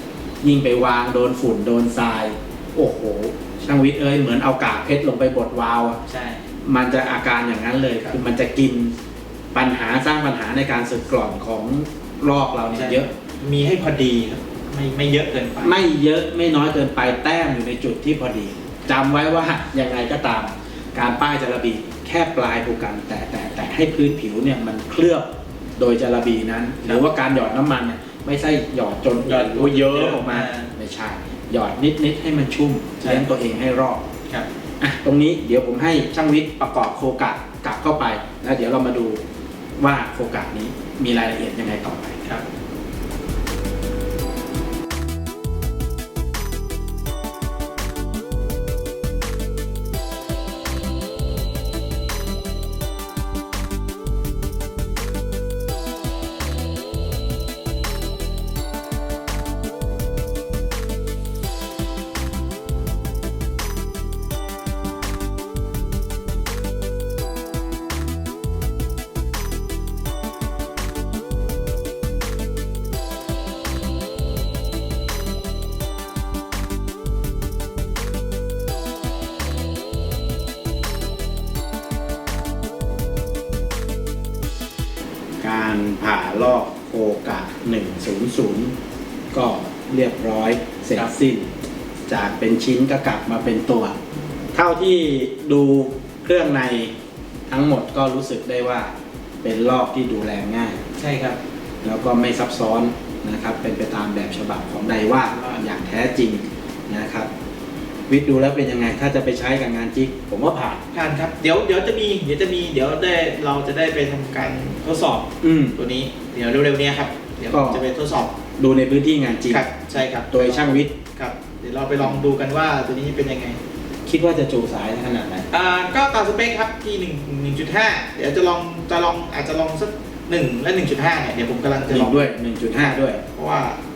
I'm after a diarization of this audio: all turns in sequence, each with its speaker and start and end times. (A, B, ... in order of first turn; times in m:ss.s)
0:00.4-0:06.0 A
0:06.1-0:06.5 B
0:06.6-0:09.0 A
0:09.5-0:13.1 A
0:12.7-0:15.8 B
0:15.6-0:34.0 A
0:29.3-0:30.7 B
0:33.0-0:33.3 B
0:34.8-0:39.2 A
0:39.8-0:42.2 A
1:25.4-1:28.7 A
1:29.3-1:31.5 A
1:32.1-1:34.0 A
1:34.5-1:36.9 A
1:37.5-1:40.8 A
1:41.0-1:41.4 B
1:41.8-1:47.3 A
1:45.2-1:45.6 B
1:48.1-1:50.8 A
1:50.9-1:58.4 B
1:55.4-1:55.8 A
1:57.5-1:57.8 A
1:58.6-2:00.9 A
1:59.5-2:03.6 B
2:02.0-2:02.3 A
2:04.0-2:05.5 A
2:05.5-2:13.8 B
2:11.8-2:13.2 A